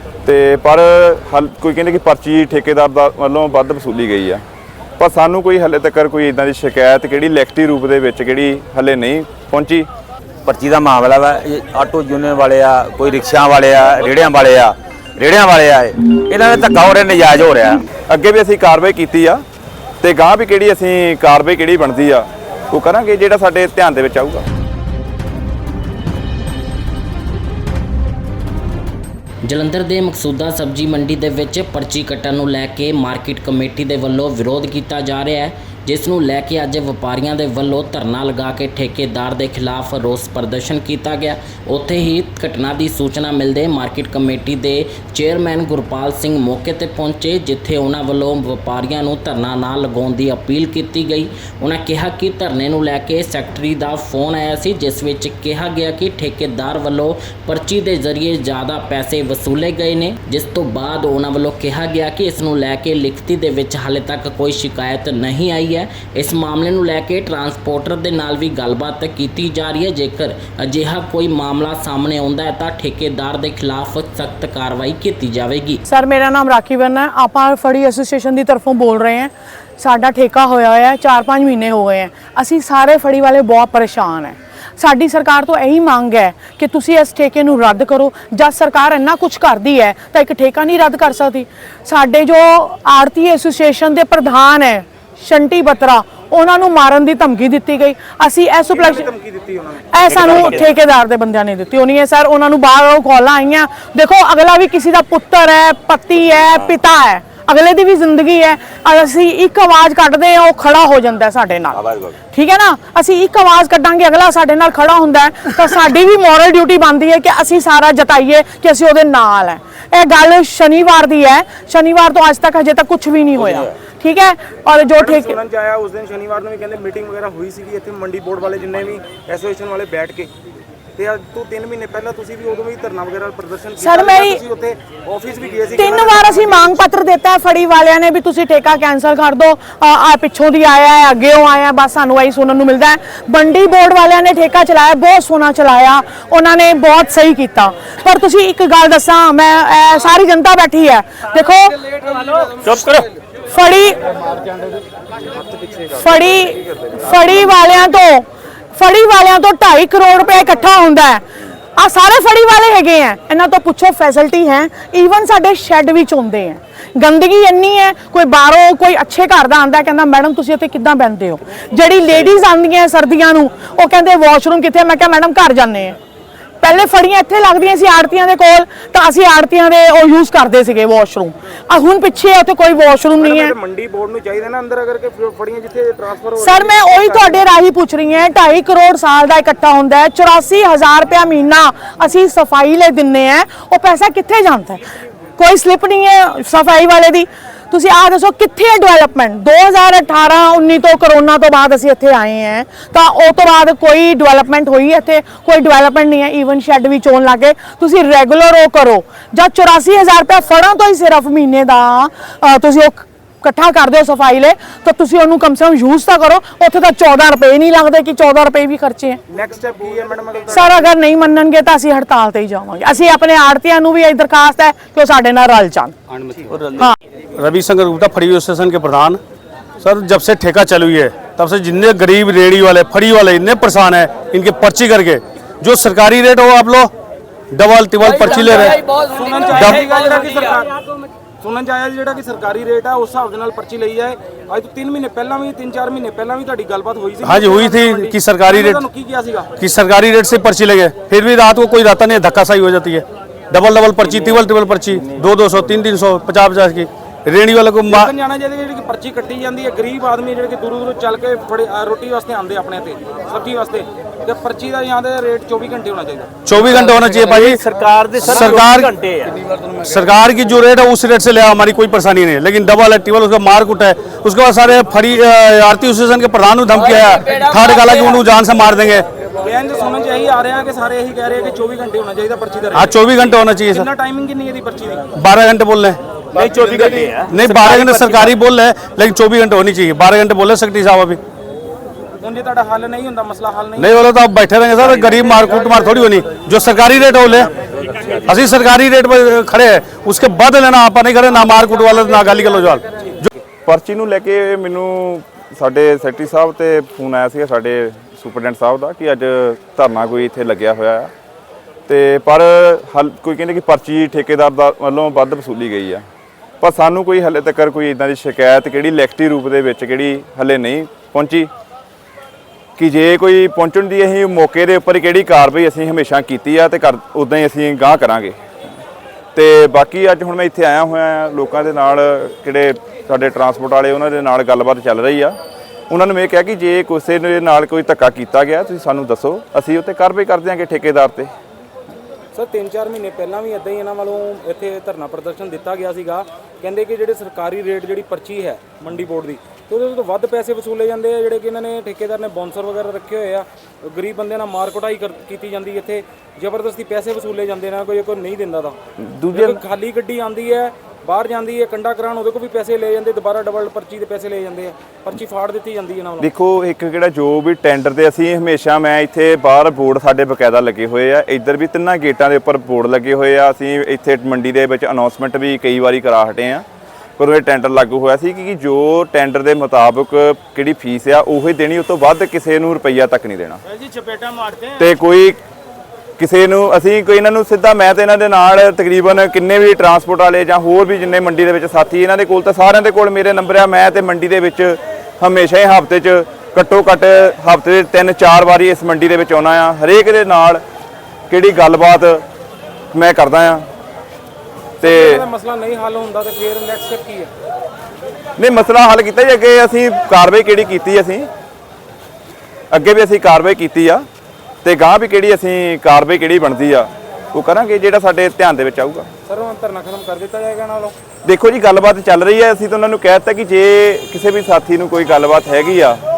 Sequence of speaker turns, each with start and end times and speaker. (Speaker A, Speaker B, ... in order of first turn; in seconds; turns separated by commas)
Speaker A: 0.2-4.4, Speaker A: 5.0-9.9, Speaker B: 10.4-17.8, Speaker A: 18.1-19.4, Speaker A: 20.0-24.4, Speaker C: 29.4-75.8, Speaker D: 75.8-99.1, Speaker E: 98.7-100.7, Speaker D: 99.9-111.8, Speaker B: 100.1-100.4, Speaker B: 111.7-112.1, Speaker D: 112.3-125.3, Speaker E: 125.0-130.3, Speaker E: 130.9-136.7, Speaker D: 133.8-134.4, Speaker D: 135.8-152.0, Speaker B: 152.6-153.0, Speaker D: 153.5-154.0, Speaker D: 155.9-161.2, Speaker D: 161.8-176.0, Speaker D: 176.6-183.5, Speaker E: 183.2-187.4, Speaker D: 186.4-194.8, Speaker D: 195.4-219.2, Speaker E: 219.3-220.9, Speaker D: 220.5-225.9, Speaker E: 226.3-226.5, Speaker D: 226.7-227.0, Speaker F: 227.3-229.2, Speaker F: 229.8-236.9, Speaker F: 237.5-238.8, Speaker E: 238.3-240.9, Speaker F: 239.5-239.9, Speaker E: 241.4-249.5, Speaker F: 247.2-248.8, Speaker F: 249.6-258.1, Speaker E: 257.9-266.3, Speaker F: 266.4-267.6, Speaker B: 267.3-269.4, Speaker F: 268.2-269.0, Speaker F: 269.8-279.0, Speaker E: 279.4-285.1, Speaker F: 282.7-283.9, Speaker F: 285.1-286.0, Speaker B: 286.3-288.3, Speaker F: 287.3-291.2, Speaker E: 292.2-294.1, Speaker F: 293.8-297.5, Speaker B: 298.0-298.3, Speaker F: 298.1-303.3, Speaker A: 303.6-311.1, Speaker A: 311.9-316.0, Speaker A: 316.6-321.5, Speaker A: 322.8-328.4, Speaker A: 329.3-335.4, Speaker A: 335.9-341.3, Speaker E: 342.3-358.8, Speaker A: 359.0-359.6, Speaker E: 359.3-366.3, Speaker A: 366.2-376.6, Speaker A: 377.2-383.6, Speaker E: 383.7-384.7, Speaker A: 384.8-385.4, Speaker A: 386.2-400.6, Speaker A: 401.3-402.2, Speaker A: 402.9-403.6, Speaker A: 404.8-405.2, Speaker E: 404.8-407.3, Speaker A: 408.4-411.3, Speaker A: 412.7-414.1, Speaker A: 414.6-419.1, Speaker E: 419.2-420.9, Speaker A: 421.2-426.0